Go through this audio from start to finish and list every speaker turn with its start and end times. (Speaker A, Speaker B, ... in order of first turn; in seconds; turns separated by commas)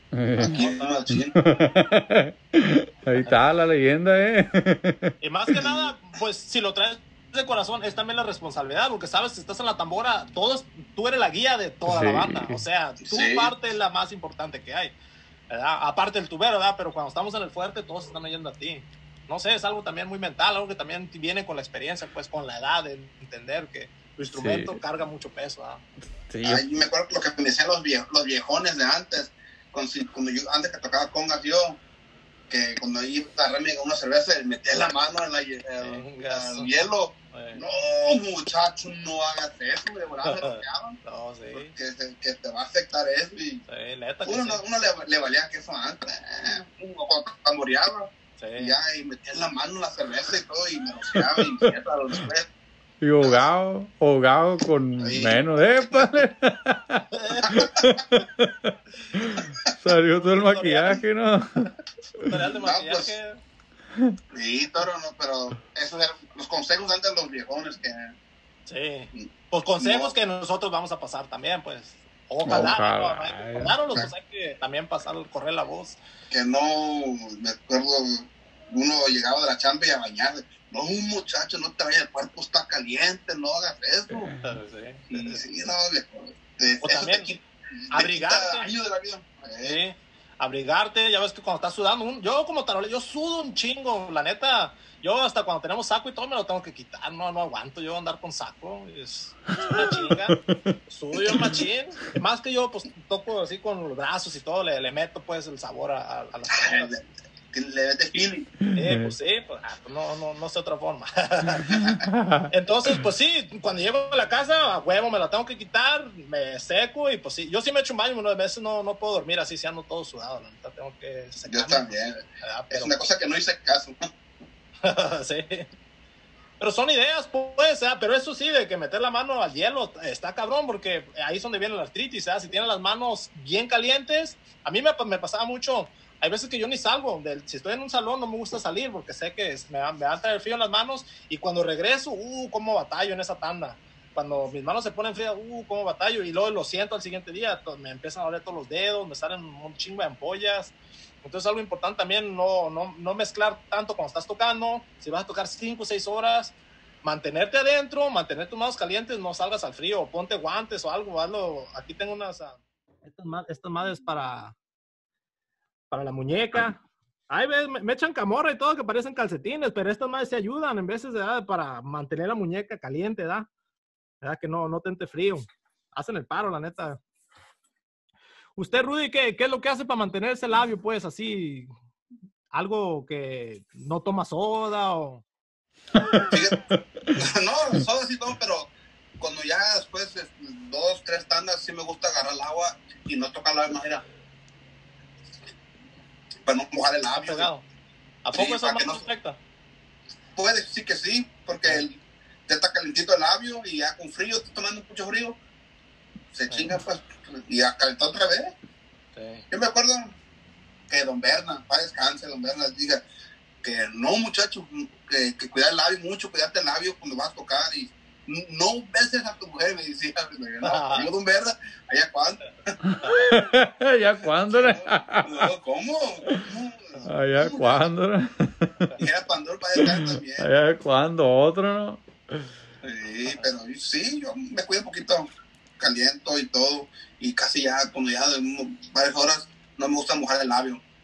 Speaker A: 0.1-5.6, Speaker B: 0.4-1.4, Speaker C: 0.5-1.2, Speaker C: 5.2-14.9, Speaker B: 5.6-6.0, Speaker A: 11.9-12.6, Speaker B: 13.0-13.5, Speaker C: 15.5-25.8, Speaker A: 24.4-24.8, Speaker A: 26.3-26.6, Speaker B: 26.4-31.8, Speaker B: 32.5-41.0, Speaker C: 35.8-36.7, Speaker C: 37.3-37.6, Speaker C: 40.2-41.7, Speaker B: 41.5-43.6, Speaker C: 43.7-44.6, Speaker B: 44.3-52.5, Speaker C: 48.4-48.8, Speaker A: 51.1-51.7, Speaker A: 53.0-62.2, Speaker B: 55.0-56.1, Speaker C: 57.1-57.5, Speaker B: 57.5-58.0, Speaker C: 60.1-61.0, Speaker C: 62.2-63.4, Speaker B: 62.6-63.1, Speaker B: 64.3-68.1, Speaker C: 68.7-76.0, Speaker B: 69.1-70.1, Speaker A: 72.4-74.0, Speaker B: 76.3-84.3, Speaker A: 84.1-84.4, Speaker C: 84.4-85.4, Speaker B: 85.1-89.8, Speaker C: 86.8-87.3, Speaker C: 87.9-88.7, Speaker C: 89.6-100.4, Speaker A: 99.6-100.7, Speaker C: 100.9-106.9, Speaker B: 106.5-108.5, Speaker A: 108.6-109.1, Speaker C: 108.7-111.8, Speaker B: 111.7-112.0, Speaker A: 111.9-113.0, Speaker C: 112.5-123.0, Speaker B: 121.5-124.0, Speaker C: 124.8-125.7, Speaker C: 126.6-164.6, Speaker C: 165.9-166.8, Speaker C: 167.3-173.5, Speaker C: 174.2-177.0, Speaker C: 178.6-181.7, Speaker C: 182.5-185.2, Speaker A: 186.0-186.3, Speaker B: 186.3-194.0, Speaker B: 196.4-197.5, Speaker C: 197.1-197.6, Speaker C: 198.2-199.4, Speaker B: 198.3-199.1, Speaker B: 200.4-205.4, Speaker B: 206.3-208.5, Speaker C: 206.5-206.8, Speaker C: 209.1-209.4, Speaker B: 209.5-210.1, Speaker B: 210.9-213.0, Speaker B: 213.6-222.7, Speaker C: 220.6-221.1, Speaker A: 222.9-225.5, Speaker B: 224.5-227.9, Speaker A: 227.1-228.9, Speaker B: 229.0-230.4, Speaker A: 229.8-232.5, Speaker B: 232.8-240.8